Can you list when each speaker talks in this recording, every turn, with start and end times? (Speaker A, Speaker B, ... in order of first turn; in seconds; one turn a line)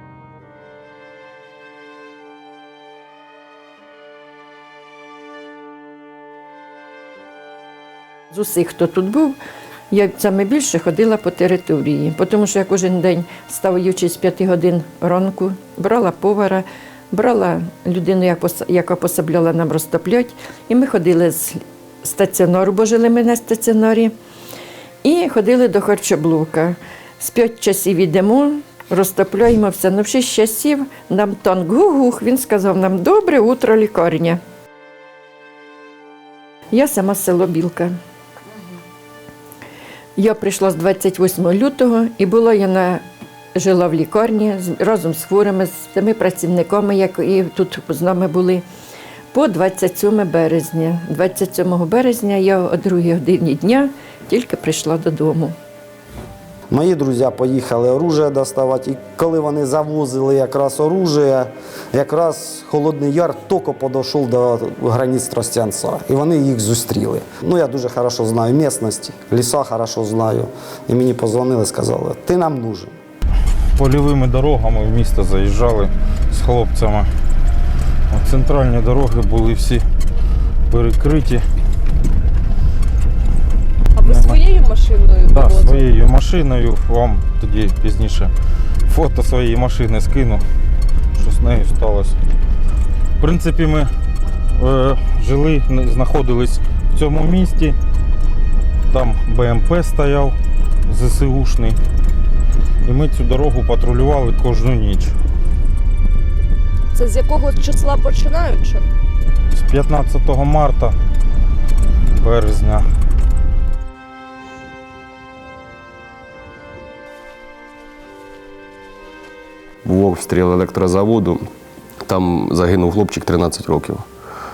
Speaker A: 8.3-9.4
Speaker A: 9.9-24.1
Speaker A: 25.0-34.4
Speaker A: 36.7-37.9
Speaker A: 40.2-43.0
Speaker A: 43.5-48.6
Speaker A: 49.3-55.5
Speaker B: 56.7-72.9
Speaker C: 73.8-77.1
Speaker C: 78.1-79.8
Speaker C: 80.7-81.4
Speaker D: 84.0-85.8
Speaker C: 84.0-84.4
Speaker C: 85.3-88.3
Speaker C: 88.9-90.4
Speaker C: 91.1-92.2
Speaker C: 93.2-93.9
Speaker C: 94.6-97.8
Speaker C: 98.9-100.3
Speaker C: 100.9-101.8
Speaker C: 102.8-105.1
Speaker D: 106.9-108.8
Speaker C: 109.5-111.0
Speaker C: 112.2-112.8
Speaker E: 119.8-121.5
Speaker E: 122.0-124.0